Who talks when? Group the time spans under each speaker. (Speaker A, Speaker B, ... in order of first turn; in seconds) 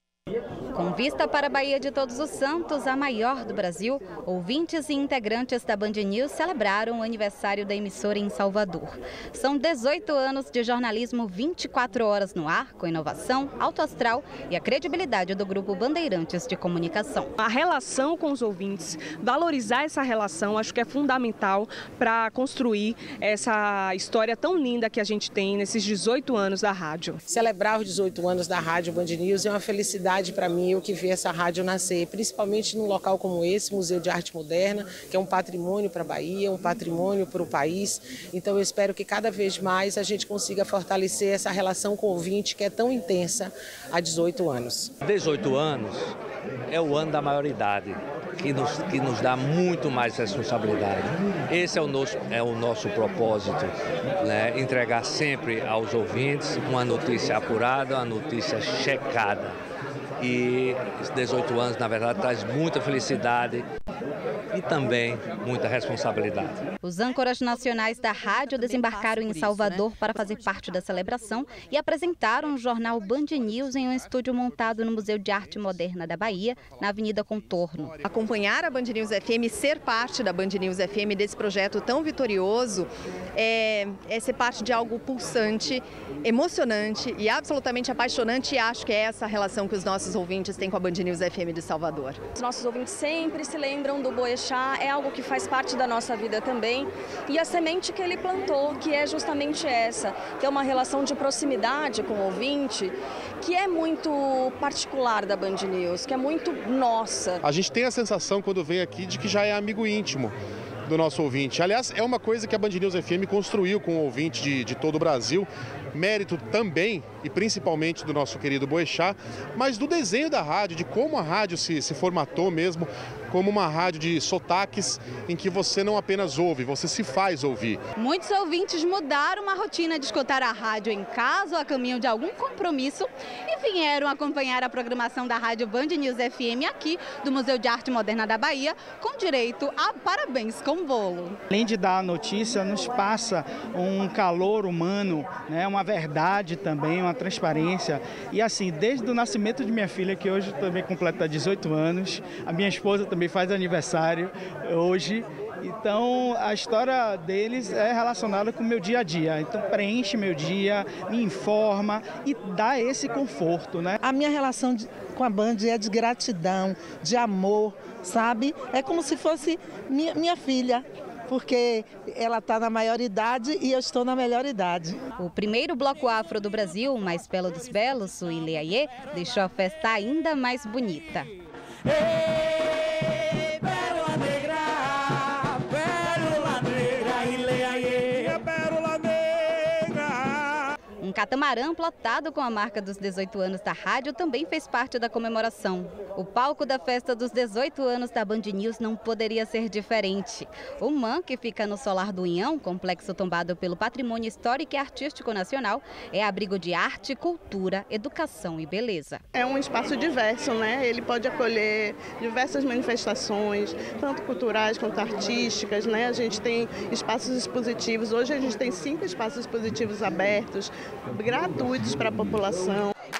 Speaker A: 0.7-17.3, 66.8-77.9, 128.0-141.4, 175.2-181.3, 191.0-209.2
Speaker B: 17.4-27.2
Speaker C: 27.3-44.9
Speaker D: 45.0-46.1, 46.7-59.5, 60.2-63.7, 64.5-66.6
Speaker E: 68.8-69.8, 78.0-92.2
Speaker F: 92.3-107.4
Speaker G: 107.4-110.3, 110.9-127.8
Speaker H: 141.5-163.9
Speaker I: 164.0-175.0
Speaker J: 209.3-222.9